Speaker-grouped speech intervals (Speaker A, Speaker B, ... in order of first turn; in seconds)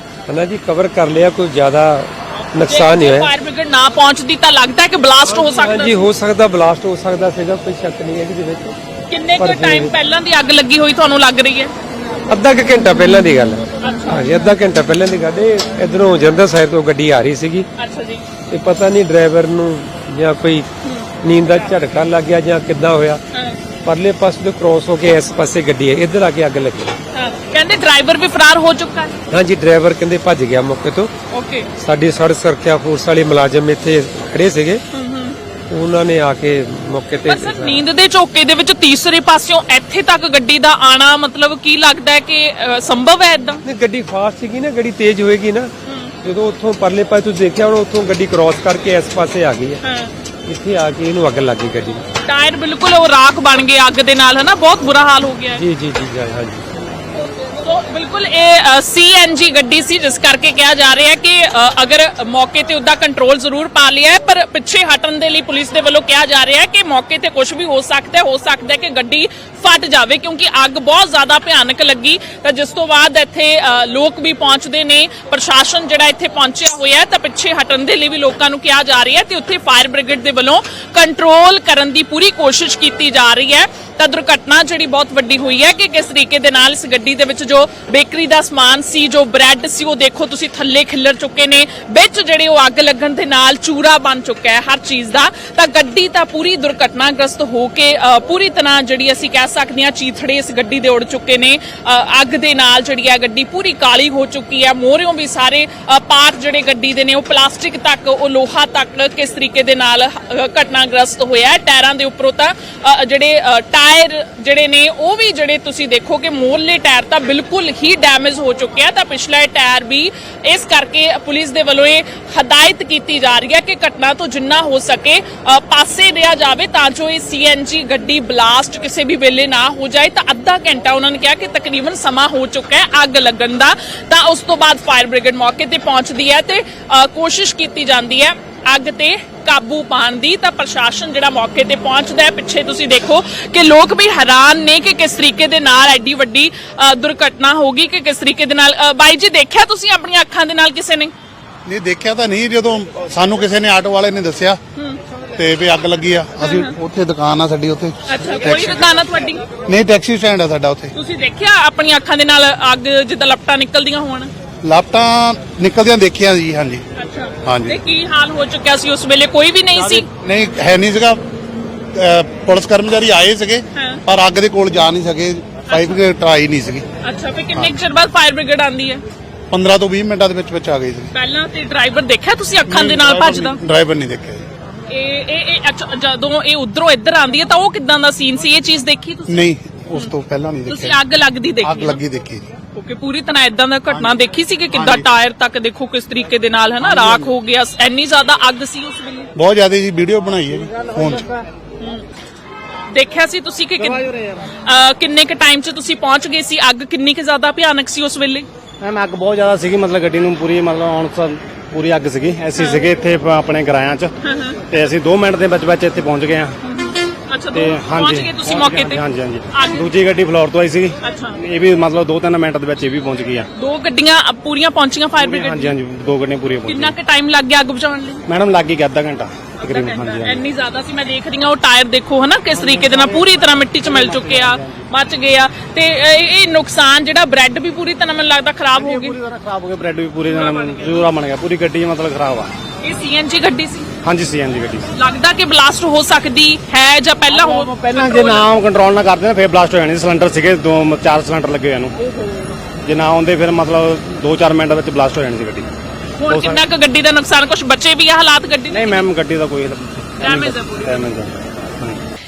Speaker A: 0.3-3.3, 5.3-8.8, 9.4-9.9, 12.3-17.7, 18.5-20.7, 21.2-23.2, 23.9-27.0, 29.3-31.1, 31.8-34.8, 35.7-37.8, 43.6-45.7, 46.2-49.8, 50.5-52.0, 55.6-56.7
Speaker B: 2.6-6.1, 9.1-11.7, 13.8-14.3, 17.8-18.2, 20.8-21.1, 23.3-23.6, 27.1-29.2, 31.3-31.7, 34.9-35.4, 37.2-43.6, 45.9-46.1, 49.8-50.1, 52.2-55.6, 57.4-151.1, 156.4-156.8, 158.1-159.5, 160.9-164.3, 167.0-170.1, 173.8-174.0, 175.7-176.0, 177.0-179.0, 181.1-183.6, 184.9-190.1, 190.7-192.0, 192.7-199.3, 201.8-202.0, 202.9-204.1, 204.6-208.5, 212.6-212.9, 214.2-214.6, 216.6-219.9, 221.0-221.4, 223.6-225.8, 226.7-228.2, 229.6-239.2, 240.3-241.1, 242.8-243.9, 244.9-248.5, 252.1-252.4, 256.2-259.1, 260.2-261.1
Speaker C: 151.7-154.6, 155.3-158.9, 159.7-160.9, 164.6-166.8, 167.4-167.8, 169.8-171.2, 171.9-176.8, 179.5-181.1, 182.7-184.4, 189.3-191.0, 191.6-192.5, 193.9-194.2, 194.7-195.1, 199.3-201.3
Speaker D: 196.9-197.3, 200.8-201.4, 203.8-204.3, 208.8-214.1, 214.7-216.6, 217.5-223.5, 225.2-226.9, 228.3-230.4, 232.6-234.8, 238.8-242.5, 244.0-244.9, 247.3-251.9, 252.8-255.7, 256.3-256.6, 258.7-262.0